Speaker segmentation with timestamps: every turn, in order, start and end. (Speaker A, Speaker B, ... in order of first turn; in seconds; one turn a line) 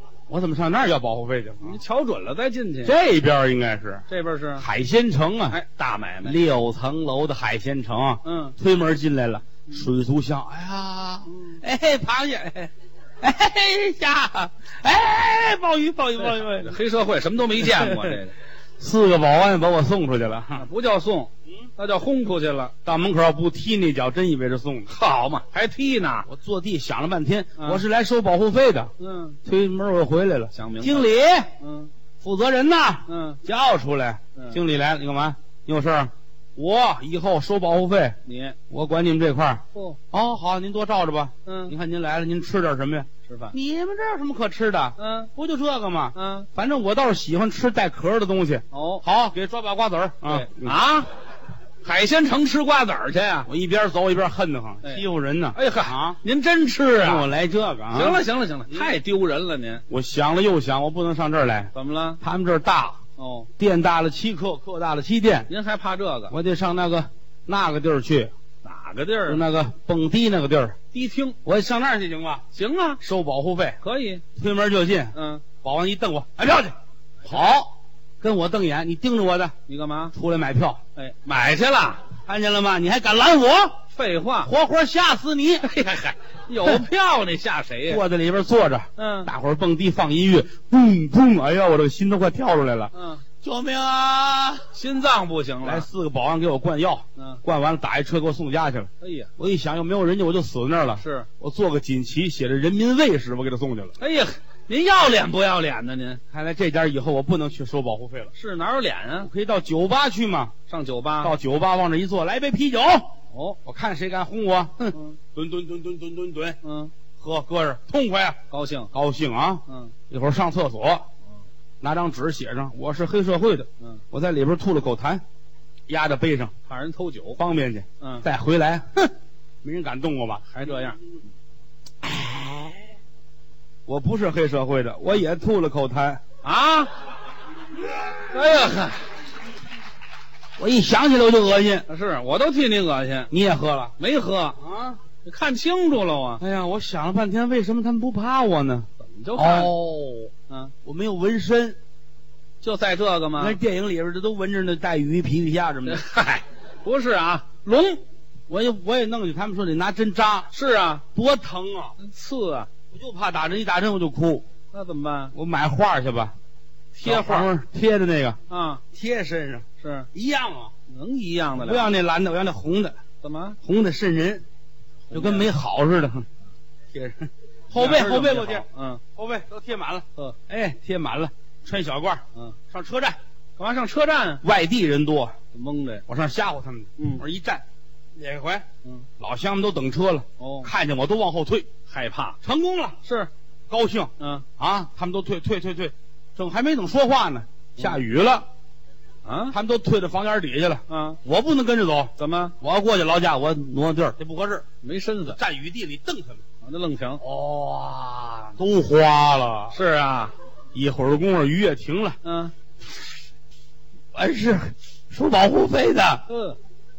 Speaker A: 0.3-1.8
Speaker B: 1.6-3.0
Speaker A: 2.9-4.1
Speaker B: 4.1-4.7
Speaker A: 4.6-5.6
Speaker B: 5.5-6.4
Speaker A: 6.2-16.8
Speaker B: 8.2-8.6
Speaker B: 11.3-11.6
Speaker B: 16.2-18.3
Speaker A: 17.6-18.2
Speaker A: 18.8-20.7
Speaker B: 20.6-22.7
Speaker A: 22.9-24.9
Speaker B: 24.9-26.3
Speaker A: 26.3-28.9
Speaker B: 27.6-27.8
Speaker B: 29.0-29.4
Speaker A: 29.4-31.5
Speaker B: 30.5-31.9
Speaker A: 32.2-38.2
Speaker B: 33.1-33.4
Speaker B: 38.3-38.6
Speaker A: 38.7-50.8
Speaker B: 41.5-41.7
Speaker B: 43.3-43.5
Speaker B: 45.0-45.3
Speaker B: 46.1-46.5
Speaker B: 48.7-49.0
Speaker B: 50.2-51.1
Speaker B: 51.8-53.5
Speaker A: 53.5-56.2
Speaker B: 55.5-57.3
Speaker A: 57.0-59.0
Speaker B: 57.9-59.8
Speaker A: 59.9-63.0
Speaker B: 61.7-62.2
Speaker B: 63.2-63.5
Speaker A: 63.6-65.5
Speaker B: 65.5-66.3
Speaker A: 66.3-68.3
Speaker B: 68.6-69.4
Speaker A: 69.3-70.8
Speaker B: 70.9-71.4
Speaker A: 71.5-72.5
Speaker B: 72.5-73.0
Speaker A: 73.0-73.8
Speaker B: 73.8-74.2
Speaker A: 74.4-79.5
Speaker B: 75.1-75.4
Speaker B: 79.7-80.1
Speaker A: 80.1-80.8
Speaker B: 81.0-82.1
Speaker A: 82.2-83.8
Speaker B: 83.9-84.5
Speaker A: 84.4-85.7
Speaker B: 85.6-88.0
Speaker A: 87.9-94.7
Speaker B: 89.0-89.3
Speaker B: 92.9-93.2
Speaker B: 94.7-95.9
Speaker A: 95.6-103.9
Speaker B: 97.2-97.4
Speaker B: 99.0-99.3
Speaker B: 101.0-101.3
Speaker B: 104.0-106.2
Speaker A: 106.3-108.3
Speaker B: 108.3-109.3
Speaker A: 109.2-110.5
Speaker B: 110.7-111.3
Speaker A: 111.2-113.1
Speaker B: 113.3-113.6
Speaker A: 113.7-116.6
Speaker B: 114.9-115.2
Speaker B: 116.6-116.9
Speaker A: 117.2-118.4
Speaker B: 118.5-118.9
Speaker A: 118.9-121.0
Speaker B: 119.7-119.9
Speaker A: 121.8-125.2
Speaker A: 125.9-126.5
Speaker B: 126.7-127.4
Speaker A: 127.4-129.1
Speaker B: 128.0-128.3
Speaker A: 129.6-130.4
Speaker B: 130.5-131.0
Speaker A: 132.0-132.8
Speaker A: 133.9-136.2
Speaker B: 136.4-136.9
Speaker B: 138.3-139.1
Speaker A: 140.6-141.9
Speaker B: 141.9-143.3
Speaker A: 143.3-143.9
Speaker B: 144.0-144.6
Speaker A: 144.6-145.0
Speaker B: 145.2-146.4
Speaker A: 146.4-150.3
Speaker B: 149.0-149.7
Speaker B: 150.5-150.7
Speaker A: 150.8-151.8
Speaker B: 152.6-153.6
Speaker A: 153.4-156.0
Speaker B: 155.9-158.0
Speaker A: 158.5-160.5
Speaker B: 160.5-161.0
Speaker A: 161.2-162.0
Speaker B: 162.0-162.7
Speaker A: 162.9-164.5
Speaker B: 164.7-165.3
Speaker A: 165.3-166.3
Speaker B: 166.9-167.5
Speaker A: 167.0-168.4
Speaker B: 168.5-168.8
Speaker A: 168.9-170.7
Speaker B: 169.8-170.1
Speaker B: 170.9-171.9
Speaker A: 171.6-173.0
Speaker B: 173.2-173.6
Speaker A: 173.6-174.4
Speaker B: 175.1-175.5
Speaker A: 175.1-176.3
Speaker A: 176.9-183.2
Speaker B: 177.7-179.0
Speaker B: 183.6-184.4
Speaker A: 184.4-185.3
Speaker B: 185.5-186.1
Speaker A: 186.1-187.6
Speaker B: 187.0-187.2
Speaker A: 188.2-188.7
Speaker A: 189.2-191.7
Speaker B: 190.4-190.7
Speaker B: 191.9-192.4
Speaker A: 192.4-193.0
Speaker B: 193.0-193.3
Speaker A: 193.7-198.5
Speaker B: 194.2-194.4
Speaker B: 199.2-199.6
Speaker A: 199.5-204.7
Speaker B: 200.9-201.2
Speaker B: 202.2-202.6
Speaker B: 204.8-205.4
Speaker A: 205.3-206.4
Speaker B: 206.6-207.2
Speaker A: 207.2-209.8
Speaker B: 209.7-210.3
Speaker A: 210.7-212.2
Speaker B: 212.2-212.5
Speaker A: 214.1-216.2
Speaker B: 216.3-216.6